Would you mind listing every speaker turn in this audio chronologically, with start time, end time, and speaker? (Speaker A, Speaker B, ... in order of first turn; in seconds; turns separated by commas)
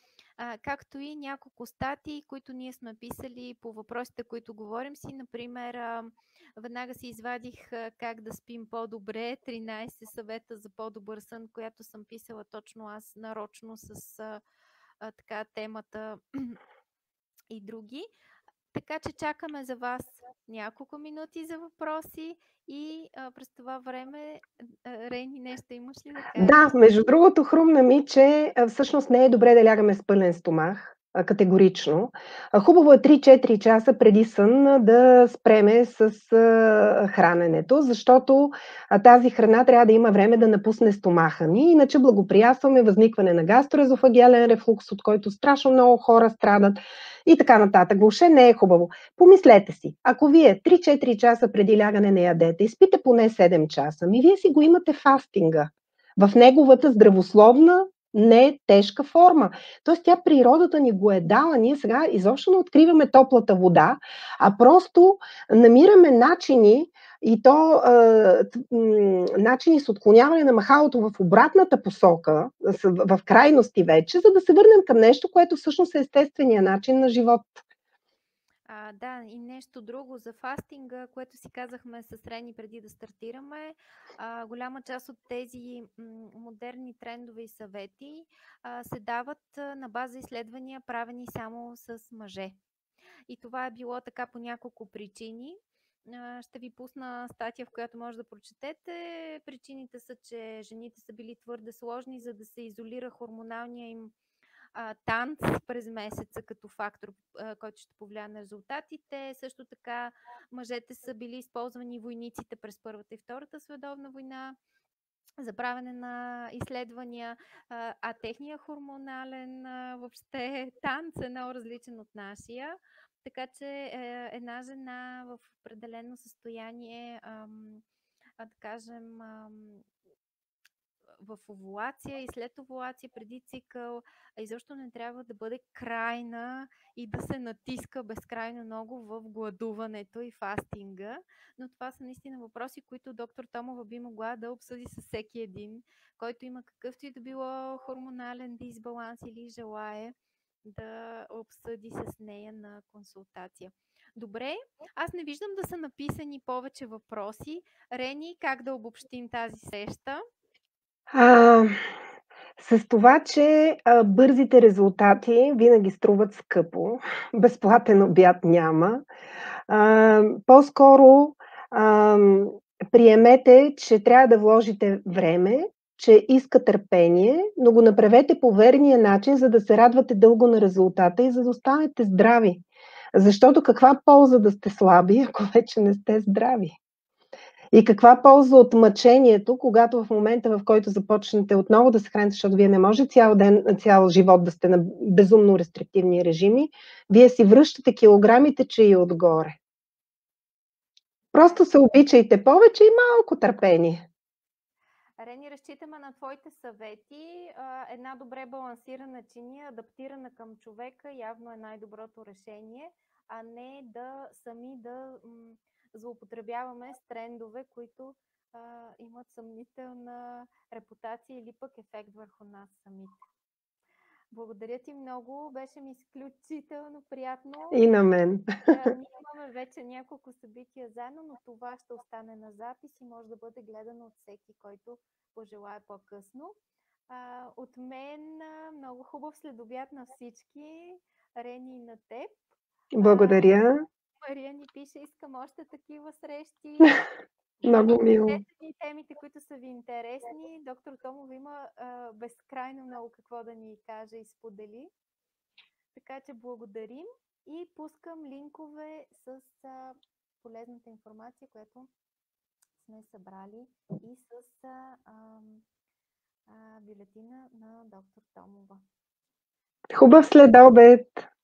Speaker A: 0.4-14.4, Speaker A: 15.0-16.6, Speaker A: 17.5-18.1, Speaker A: 18.7-26.8, Speaker B: 26.4-77.6, Speaker A: 78.7-92.6, Speaker A: 93.3-104.1, Speaker A: 104.8-114.6, Speaker A: 115.4-127.8, Speaker A: 128.4-129.8, Speaker A: 131.2-160.2, Speaker B: 161.1-161.7, Speaker B: 162.6-169.1, Speaker B: 169.7-182.6, Speaker B: 183.2-186.8, Speaker B: 187.7-199.6, Speaker B: 201.3-204.1, Speaker A: 201.4-201.7, Speaker A: 205.2-223.2, Speaker A: 224.3-227.8, Speaker B: 227.7-228.6, Speaker A: 228.7-236.6, Speaker A: 237.1-242.4, Speaker B: 242.9-243.8, Speaker A: 243.0-243.6, Speaker A: 244.2-247.0, Speaker A: 247.6-254.9, Speaker B: 247.7-248.4, Speaker A: 255.9-261.9, Speaker A: 262.8-265.6, Speaker A: 266.5-268.8, Speaker B: 269.9-271.2